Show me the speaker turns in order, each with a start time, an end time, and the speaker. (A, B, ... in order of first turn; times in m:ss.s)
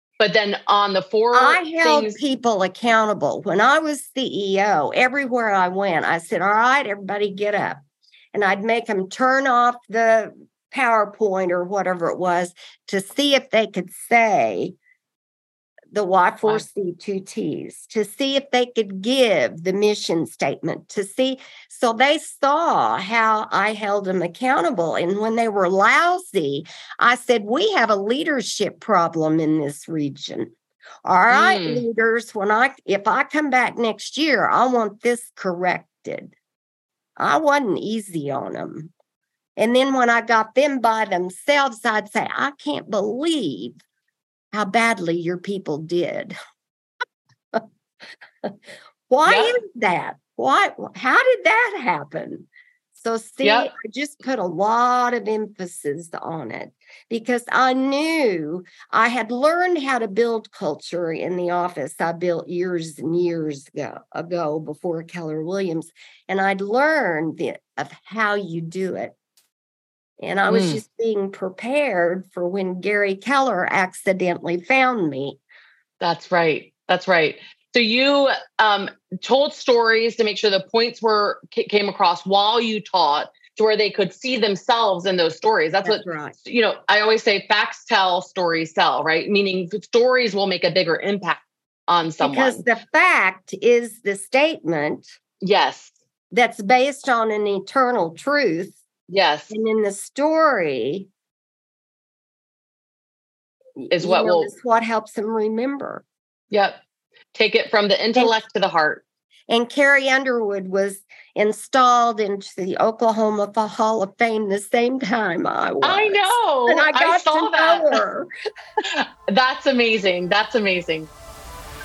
0:00.2-0:02.2 A
0:01.3-0:07.8 B
0:08.3-0:14.8 B
0:15.9-0:30.5 B
0:31.0-0:36.3 B
0:31.3-0:31.8 A
0:37.2-0:38.9 B
0:39.6-0:43.8 B
0:44.5-0:46.3 B
0:49.1-1:09.2 B
0:49.3-0:49.6 A
0:53.4-0:53.7 A
1:10.2-1:15.4 B
1:10.5-1:10.8 A
1:16.0-1:32.6 A
1:25.8-1:26.4 B
1:32.2-1:35.1 B
1:35.4-1:35.9 A
1:36.3-1:38.8 B
1:39.1-1:39.5 A
1:39.5-1:41.1 B
1:43.8-1:46.0 B
1:43.9-1:44.5 A
1:46.5-1:46.8 A
1:47.3-1:49.0 A
1:49.5-1:58.3 B
1:55.8-1:58.0 A
1:58.8-2:01.1 A